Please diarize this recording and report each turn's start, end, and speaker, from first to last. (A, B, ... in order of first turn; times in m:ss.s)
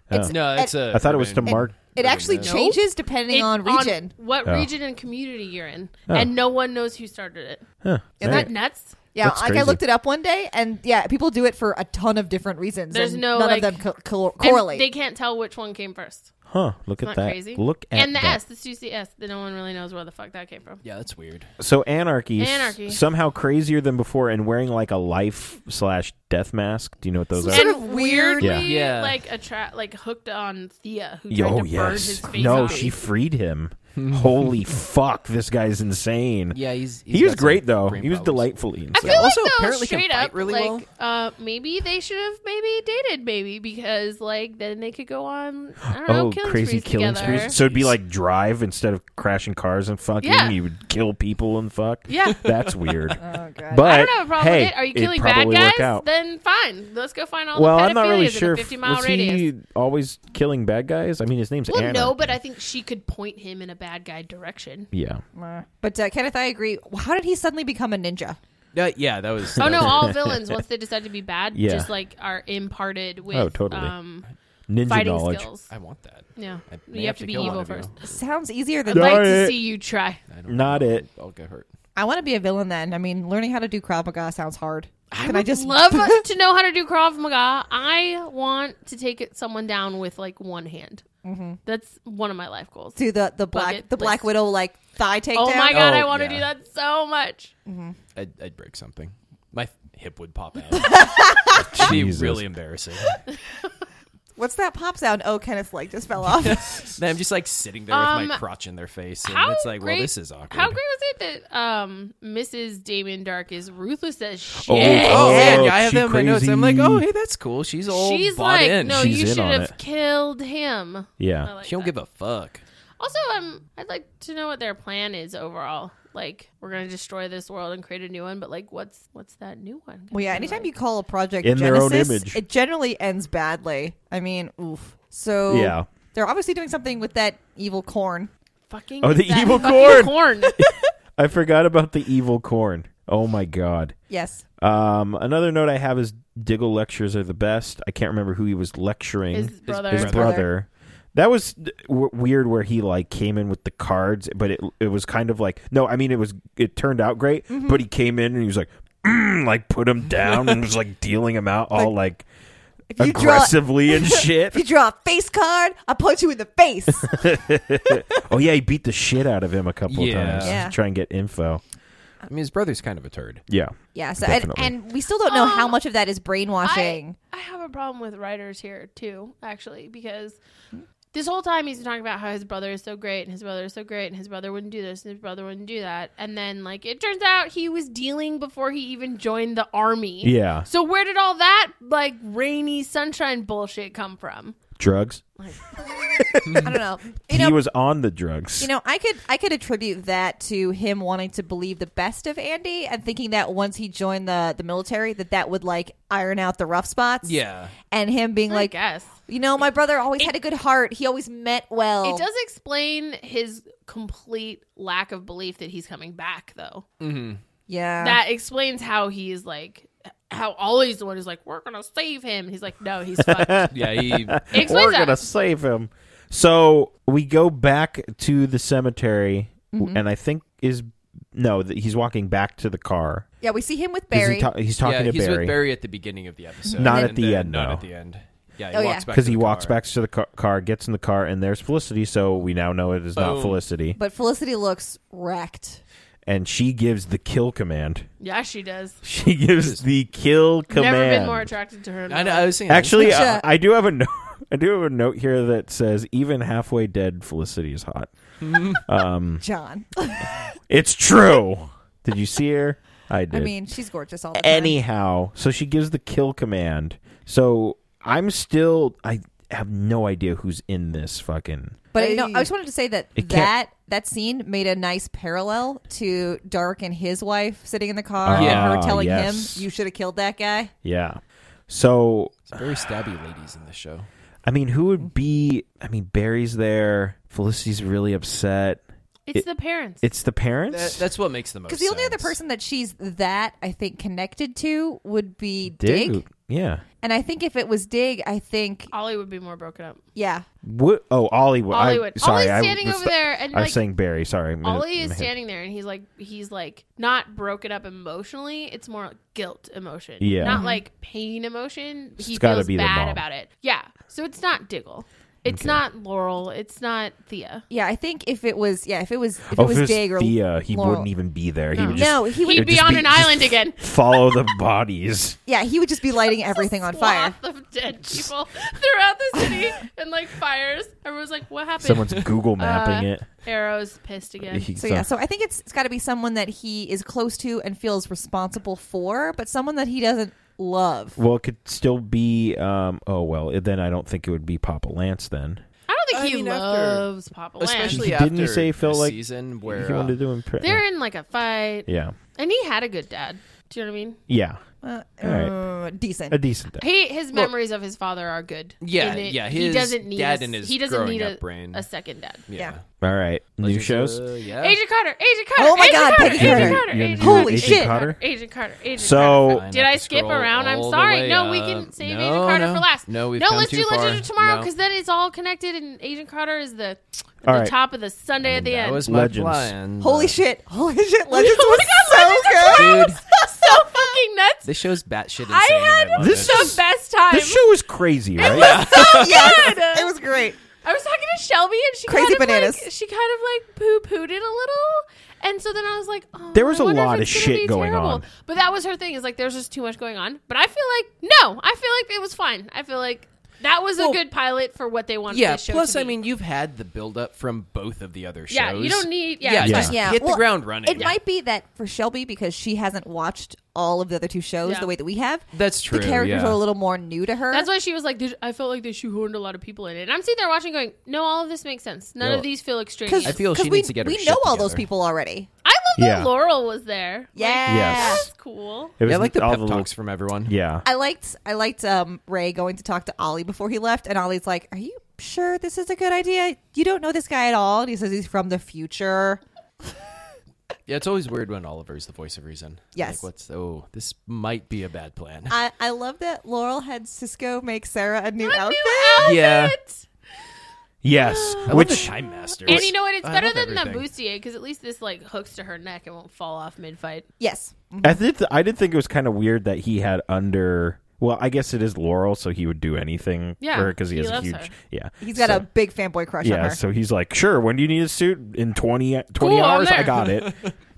0:00.1-0:01.7 A
0:00.1-0:00.8 B
0:00.3-0:02.6 C
0:01.4-0:04.1 B
0:02.4-0:07.6 D
0:07.8-0:08.5 A
0:08.2-0:08.5 B
0:08.2-0:09.0 D
0:09.1-0:14.9 B
0:09.2-0:09.8 A
0:12.9-0:13.8 D
0:14.4-0:16.3 D
0:16.5-0:18.4 A
0:17.0-0:20.8 D
0:20.8-0:21.5 C
0:21.6-0:27.7 A
0:22.4-0:23.0 D
0:27.4-0:28.7 B
0:27.5-0:33.0 D
0:28.4-0:28.7 A
0:28.6-0:29.2 C
0:31.3-0:39.3 A
0:32.3-0:33.0 B
0:34.0-0:34.6 C
0:36.5-0:40.8 C
0:38.9-0:47.6 D
0:46.0-0:56.0 A
0:47.2-0:48.0 C
0:50.2-0:50.6 D
0:52.1-0:52.5 D
0:52.7-0:53.1 C
0:53.2-0:54.0 B
0:53.8-0:59.5 D
0:57.5-1:02.4 A
1:01.7-1:04.9 D
1:04.9-1:05.2 A
1:05.4-1:08.4 B
1:08.7-1:10.1 C
1:09.6-1:10.6 A
1:09.6-1:14.3 D
1:11.5-1:11.9 A
1:13.3-1:13.9 A
1:14.7-1:15.5 A
1:14.8-1:15.7 D
1:15.7-1:18.1 C
1:16.4-1:18.0 D
1:18.0-1:19.5 B
1:18.9-1:20.2 D
1:18.9-1:19.5 A
1:20.3-1:21.7 C
1:20.5-1:21.0 A
1:22.0-1:26.2 B
1:25.2-1:31.0 D
1:31.2-1:31.6 B
1:31.6-1:33.0 D
1:33.0-1:35.8 B
1:33.5-1:34.3 D
1:35.3-1:37.5 D
1:35.7-1:36.5 C
1:37.7-1:38.0 B
1:38.2-1:43.2 C
1:40.7-1:41.7 B
1:41.6-1:42.5 A
1:44.4-1:46.8 B
1:46.4-1:50.8 C
1:47.9-1:48.4 D
1:49.2-1:55.6 D
1:54.6-1:57.1 A
1:54.8-1:59.2 C
1:57.9-2:01.9 D
1:58.8-1:59.8 A
2:01.2-2:01.5 A
2:01.6-2:02.6 C
2:03.0-2:10.7 D
2:10.1-2:18.3 B
2:11.4-2:12.4 A
2:15.5-2:15.9 A
2:18.7-2:20.6 D
2:19.0-2:24.0 A
2:24.1-2:24.4 B
2:24.6-2:42.2 A
2:29.3-2:30.3 D
2:29.7-2:30.4 C
2:30.1-2:30.5 B
2:37.5-2:37.8 B
2:42.9-2:47.3 B
2:43.0-2:44.6 A
2:47.0-2:51.6 A
2:49.9-2:50.7 C
2:50.4-2:50.8 B
2:52.2-2:53.4 C
2:53.5-2:54.7 A
2:53.9-2:57.2 B
2:55.2-2:55.8 D
2:56.6-3:00.4 D
3:01.1-3:14.6 D
3:10.2-3:10.7 A
3:14.8-3:15.4 A
3:16.2-3:18.7 A
3:16.6-3:17.6 B
3:18.6-3:32.2 B
3:27.2-3:27.7 C
3:28.5-3:29.1 D
3:32.0-3:36.8 D
3:37.0-3:37.4 C
3:37.7-3:38.2 B
3:38.0-3:43.8 D
3:43.2-3:53.3 A
3:43.7-3:44.4 C
3:44.5-3:45.2 D
3:49.7-3:50.0 B
3:53.4-3:54.5 B
3:54.1-3:55.6 A
3:54.8-3:59.8 C
3:56.7-3:57.2 B
3:56.8-3:57.8 A
3:58.7-3:59.0 B
3:59.1-4:04.0 A
4:03.2-4:03.6 C
4:04.0-4:05.8 B
4:06.3-4:08.1 A
4:08.2-4:09.0 D
4:09.0-4:11.5 A
4:10.7-4:12.5 D
4:12.1-4:13.2 C
4:12.7-4:19.4 A
4:12.9-4:13.5 B
4:18.4-4:18.8 C
4:19.4-4:20.3 B
4:20.7-4:23.6 A
4:23.3-4:24.8 B
4:24.3-4:31.8 A
4:31.9-4:40.7 B
4:32.0-4:32.5 C
4:33.2-4:33.5 A
4:38.2-4:39.6 A
4:38.3-4:38.8 C
4:40.8-4:42.6 A
4:42.5-4:44.1 C
4:44.5-4:48.8 A
4:49.3-4:50.0 D
4:50.0-4:51.1 A
4:50.7-4:52.4 C
4:51.7-4:56.2 B
4:55.7-4:56.8 A
4:57.0-4:58.9 B
4:58.9-5:00.0 D
5:00.2-5:00.5 B
5:00.6-5:05.3 A
5:01.7-5:03.8 D
5:04.6-5:17.6 D
5:10.2-5:10.6 A
5:10.4-5:10.8 B
5:12.2-5:13.2 A
5:15.5-5:15.8 A
5:17.7-5:21.1 B
5:19.5-5:25.4 A
5:21.7-5:23.8 D
5:21.8-5:22.8 B
5:25.5-5:27.4 B
5:26.3-5:34.7 D
5:31.8-5:33.3 A
5:34.5-5:35.1 A
5:34.8-5:41.2 B
5:41.2-5:45.6 A
5:45.9-5:48.1 D
5:46.1-5:47.1 C
5:47.6-5:50.2 C
5:47.8-5:50.8 A
5:50.6-5:54.2 D
5:51.9-5:52.2 A
5:54.3-5:54.6 A
5:54.8-5:56.4 B
5:55.2-5:55.6 A
5:56.3-5:57.5 A
5:56.8-6:02.4 D
5:58.8-6:01.9 C
6:02.5-6:02.8 C
6:03.0-6:04.2 A
6:03.6-6:04.8 C
6:04.6-6:19.1 D
6:05.6-6:08.0 B
6:06.2-6:08.2 A
6:09.0-6:09.7 A
6:09.3-6:14.7 C
6:17.4-6:17.8 A
6:18.5-6:19.8 A
6:18.5-6:20.4 C
6:20.0-6:24.2 B
6:21.3-6:24.7 D
6:22.7-6:23.2 C
6:24.6-6:26.8 C
6:25.4-6:27.7 D
6:26.2-6:28.9 A
6:28.4-6:30.2 D
6:28.6-6:29.6 C
6:28.6-6:30.6 B
6:30.8-6:46.2 D
6:32.1-6:32.9 B
6:36.5-6:38.3 A
6:45.3-6:51.2 C
6:48.5-6:49.9 D
6:49.6-6:50.0 A
6:49.7-6:57.7 B
6:54.6-6:54.9 D
6:55.5-6:56.6 C
6:57.5-7:03.4 D
7:02.2-7:02.5 C
7:03.1-7:05.5 B
7:03.2-7:04.9 C
7:05.6-7:09.0 D
7:06.0-7:06.3 A
7:07.4-7:08.3 B
7:07.7-7:08.3 A
7:09.0-7:09.9 A
7:09.0-7:10.5 C
7:10.5-7:10.8 A
7:10.8-7:19.4 B
7:20.9-7:25.6 C
7:23.0-7:23.2 B
7:25.5-7:29.4 B
7:28.4-7:30.1 D
7:29.2-7:29.8 C
7:31.0-7:32.9 A
7:31.2-7:32.0 D
7:31.6-7:34.1 C
7:32.6-7:37.3 D
7:37.4-7:38.2 B
7:38.0-7:45.7 A
7:43.6-7:44.7 D
7:45.2-7:46.8 B
7:46.4-7:50.5 A
7:49.4-7:50.2 D
7:50.2-7:50.7 C